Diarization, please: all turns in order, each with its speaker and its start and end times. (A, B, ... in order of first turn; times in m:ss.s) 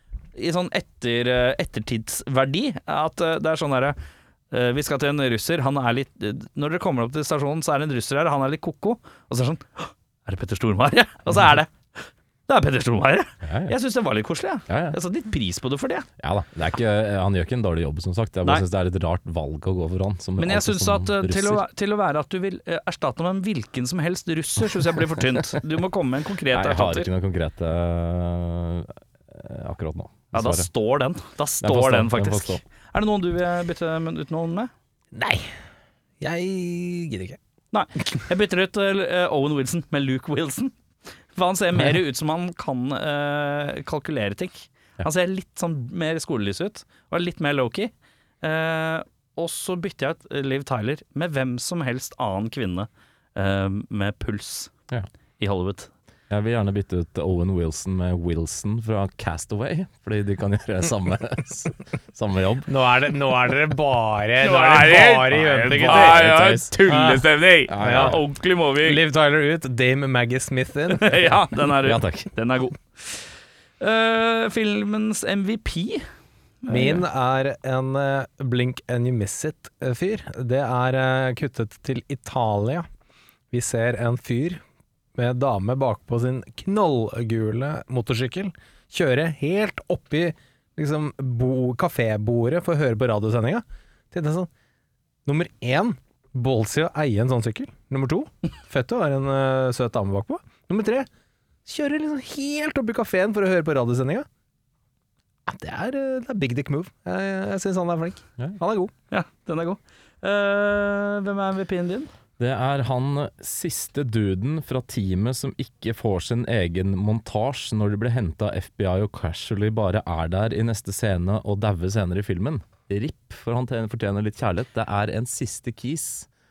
0:00.3-0:04.0 A
0:04.5-0:16.1 A
0:13.4-0:13.8 B
0:14.7-0:15.0 B
0:16.2-0:21.6 B
0:20.4-0:27.1 A
0:26.5-0:30.7 B
0:30.3-0:34.7 A
0:31.6-0:32.6 B
0:35.1-0:35.5 C
0:36.2-0:37.4 C
0:37.7-0:40.7 A
0:41.3-0:54.7 A
0:55.4-0:55.9 A
0:56.3-1:02.7 B
1:02.7-1:06.3 C
1:04.4-1:09.0 A
1:05.6-1:06.8 B
1:06.9-1:08.2 C
1:07.7-1:08.2 B
1:08.8-1:11.3 C
1:10.9-1:13.3 A
1:11.8-1:12.3 B
1:13.8-1:16.0 A
1:16.6-1:17.0 A
1:16.7-1:22.9 C
1:23.5-1:24.6 C
1:25.2-1:34.5 C
1:35.2-1:41.1 C
1:41.6-1:44.2 C
1:45.4-1:48.9 C
1:49.1-1:52.1 A
1:52.4-2:06.3 B